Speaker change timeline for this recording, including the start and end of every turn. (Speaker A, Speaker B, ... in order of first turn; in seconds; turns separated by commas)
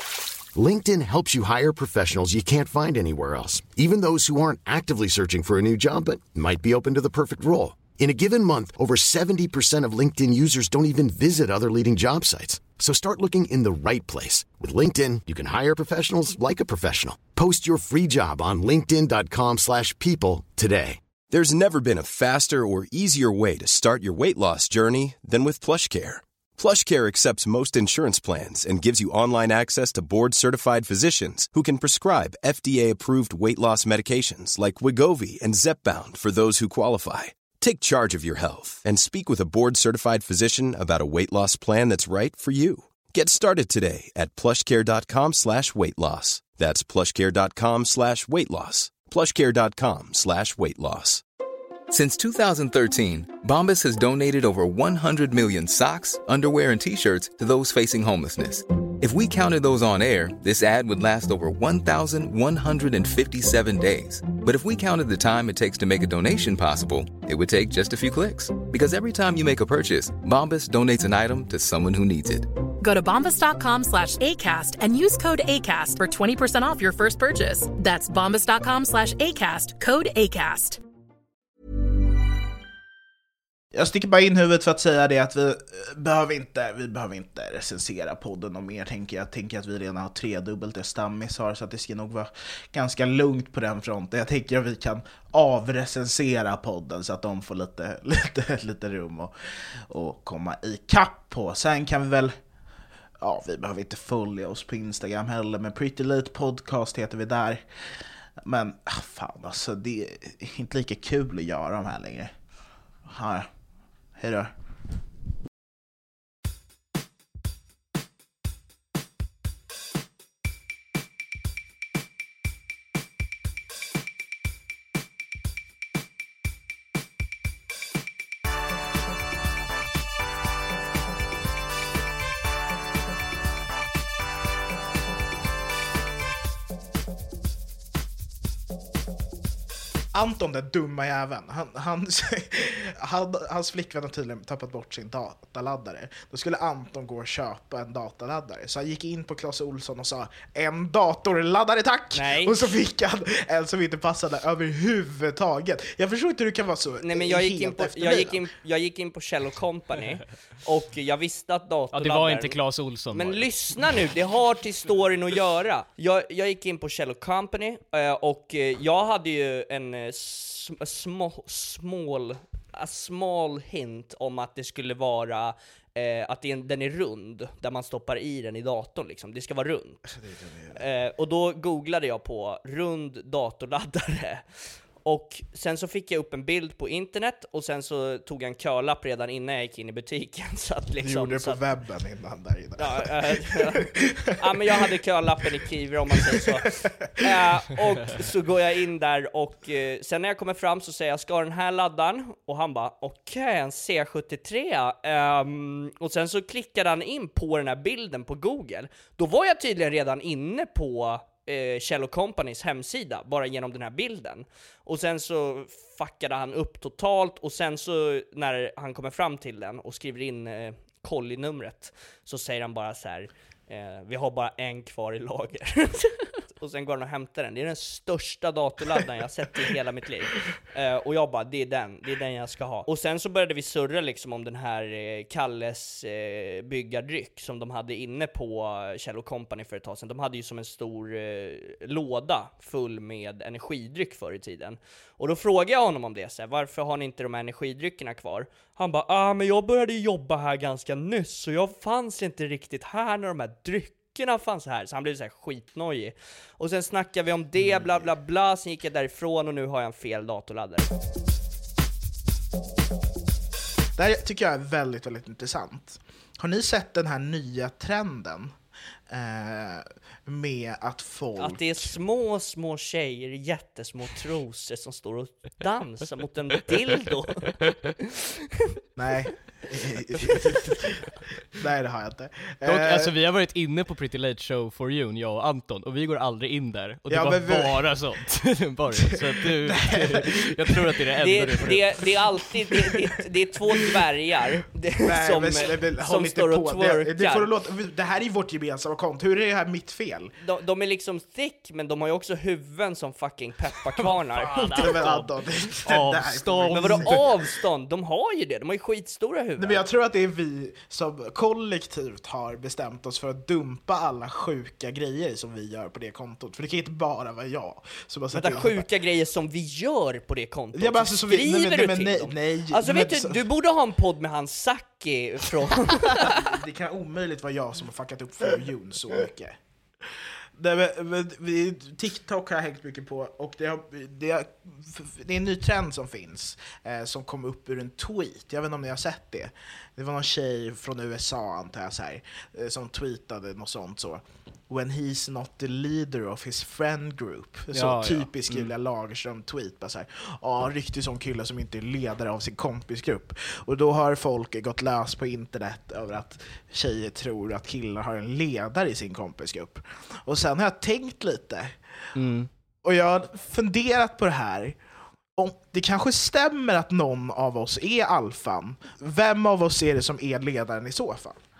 Speaker A: 0.5-21.0, Speaker B: 21.3-51.2, Speaker C: 51.9-72.5, Speaker D: 72.8-80.8, Speaker E: 83.7-99.3, Speaker E: 99.9-102.4, Speaker E: 103.2-107.7, Speaker E: 108.4-112.3, Speaker E: 113.1-113.5, Speaker E: 114.2-114.5, Speaker E: 140.1-158.4, Speaker F: 152.1-152.7, Speaker F: 157.0-162.6, Speaker G: 161.9-163.5, Speaker F: 163.1-180.1, Speaker E: 180.1-180.8, Speaker F: 180.7-191.6, Speaker E: 191.0-194.8, Speaker F: 192.8-260.9, Speaker E: 196.2-196.9, Speaker E: 257.6-258.1, Speaker E: 264.0-268.6, Speaker E: 269.1-271.9, Speaker F: 271.4-278.6, Speaker E: 279.0-281.0, Speaker E: 281.6-283.1, Speaker G: 282.6-292.1, Speaker E: 287.1-287.9, Speaker E: 288.9-291.0, Speaker F: 291.2-297.5, Speaker E: 292.7-293.1, Speaker E: 293.7-294.0, Speaker E: 295.0-300.3, Speaker F: 300.4-305.3, Speaker G: 304.0-305.3, Speaker E: 304.5-307.4, Speaker G: 305.8-307.3, Speaker F: 306.7-309.8, Speaker E: 309.6-318.9, Speaker F: 318.3-326.5, Speaker E: 320.7-323.4, Speaker E: 326.1-329.6, Speaker E: 330.1-361.8, Speaker G: 347.7-348.7, Speaker G: 362.2-362.5, Speaker E: 362.8-364.8, Speaker E: 365.4-371.4